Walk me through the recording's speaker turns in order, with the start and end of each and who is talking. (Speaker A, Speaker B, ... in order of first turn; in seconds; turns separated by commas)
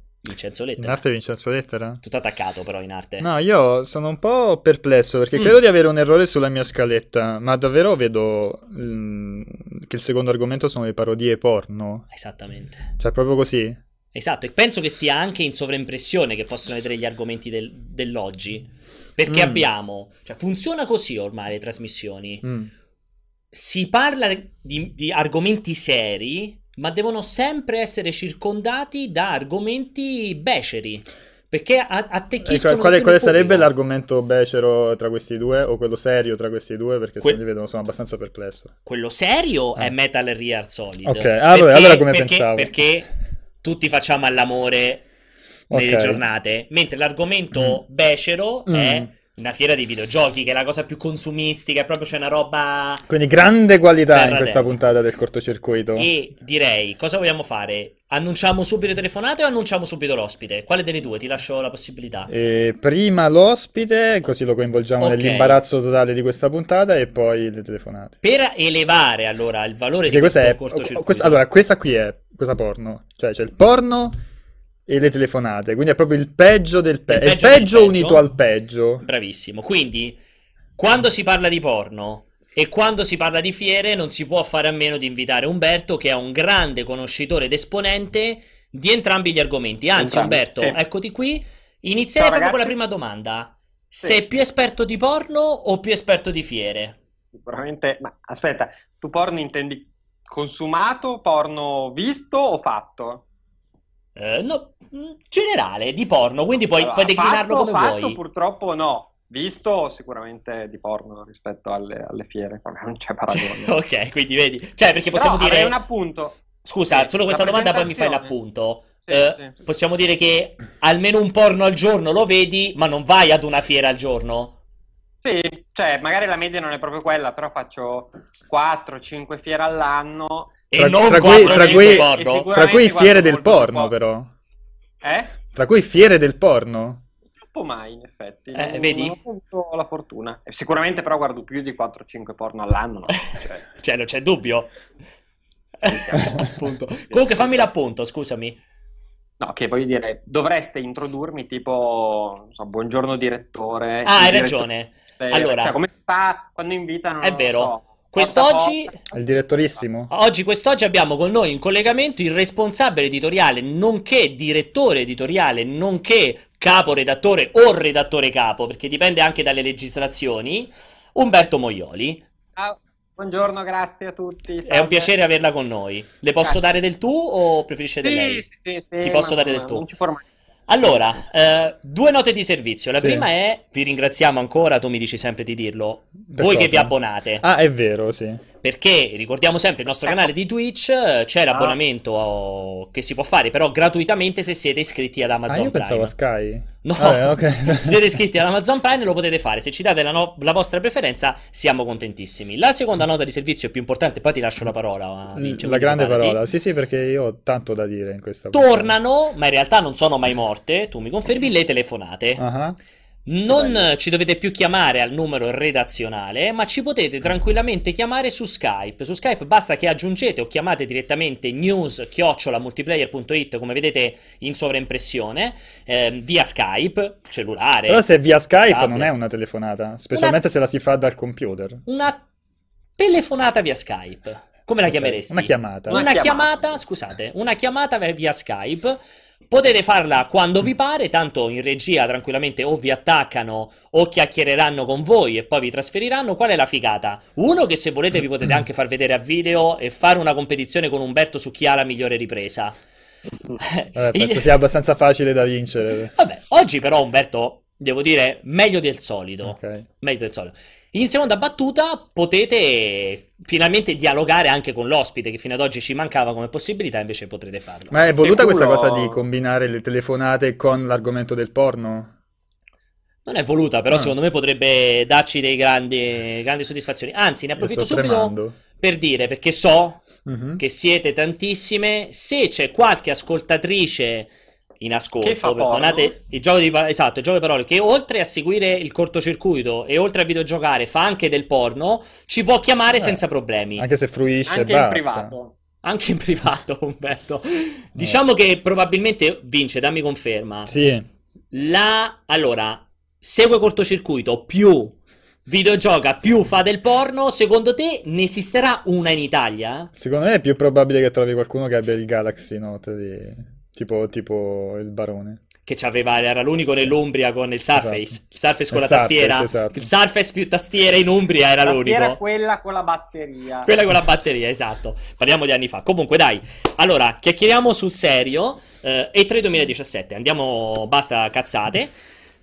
Speaker A: 0.2-1.0, Speaker B: 0.8-2.0, Speaker A: 2.0-3.3, Speaker B: 3.2-12.1, Speaker A: 12.1-12.9, Speaker B: 13.0-13.8, Speaker A: 14.1-22.4, Speaker B: 19.3-19.6, Speaker B: 22.4-22.7, Speaker A: 23.5-33.7, Speaker B: 32.4-38.7, Speaker A: 38.8-43.1, Speaker B: 41.0-42.7, Speaker A: 43.6-45.0, Speaker B: 45.7-46.2, Speaker A: 45.7-53.0, Speaker B: 47.5-47.8, Speaker B: 48.7-49.1, Speaker B: 53.1-56.1, Speaker A: 54.1-54.7, Speaker A: 56.0-62.3, Speaker B: 62.3-68.2, Speaker A: 65.0-65.6, Speaker A: 68.2-71.4, Speaker B: 70.1-74.2, Speaker B: 74.9-79.0, Speaker A: 77.1-78.2, Speaker A: 79.0-80.2, Speaker A: 80.8-97.0, Speaker C: 90.0-90.8, Speaker C: 92.2-92.7, Speaker C: 97.3-103.2, Speaker A: 104.2-108.2, Speaker C: 106.8-113.7, Speaker A: 113.3-115.8, Speaker C: 115.1-118.3, Speaker A: 116.6-124.5, Speaker C: 119.0-119.5, Speaker C: 125.2-133.9, Speaker A: 130.7-132.5, Speaker B: 130.8-134.3, Speaker C: 135.0-135.3, Speaker B: 135.5-137.0, Speaker C: 137.5-143.7, Speaker A: 138.5-139.2, Speaker A: 143.8-144.7, Speaker A: 145.8-148.6, Speaker C: 145.8-147.6, Speaker C: 149.4-154.7, Speaker A: 154.0-155.8, Speaker C: 155.2-159.1, Speaker A: 157.2-158.9, Speaker B: 159.1-160.1, Speaker A: 160.1-172.2, Speaker C: 172.6-175.1, Speaker A: 174.7-178.4, Speaker C: 178.0-180.2, Speaker A: 179.0-179.8, Speaker A: 180.7-187.4, Speaker B: 183.0-183.2, Speaker B: 186.3-188.4, Speaker A: 188.6-196.1, Speaker B: 195.5-198.0, Speaker A: 196.8-206.4, Speaker B: 205.3-208.9, Speaker A: 208.5-212.4, Speaker B: 212.4-212.8, Speaker A: 213.2-228.0, Speaker B: 213.5-213.8, Speaker B: 227.9-231.8, Speaker A: 228.7-229.1, Speaker A: 230.1-230.4, Speaker A: 231.8-232.2, Speaker A: 233.0-239.0, Speaker B: 234.8-236.0, Speaker C: 235.9-236.8, Speaker A: 239.5-252.8, Speaker A: 253.6-254.5, Speaker B: 253.9-256.1, Speaker A: 256.1-268.1, Speaker B: 259.4-259.8, Speaker B: 267.9-272.1, Speaker C: 268.2-269.2, Speaker A: 273.2-280.0, Speaker B: 277.6-278.5, Speaker B: 280.2-280.6, Speaker A: 280.6-293.9, Speaker C: 285.2-286.1, Speaker B: 292.9-293.2, Speaker B: 293.8-295.3, Speaker C: 294.4-295.5, Speaker A: 295.8-300.7, Speaker B: 300.6-301.0, Speaker A: 301.5-304.9, Speaker A: 305.5-309.9, Speaker B: 309.9-315.4, Speaker A: 315.6-322.2, Speaker B: 317.8-318.2, Speaker B: 318.7-319.9, Speaker C: 321.6-323.7, Speaker A: 323.6-331.9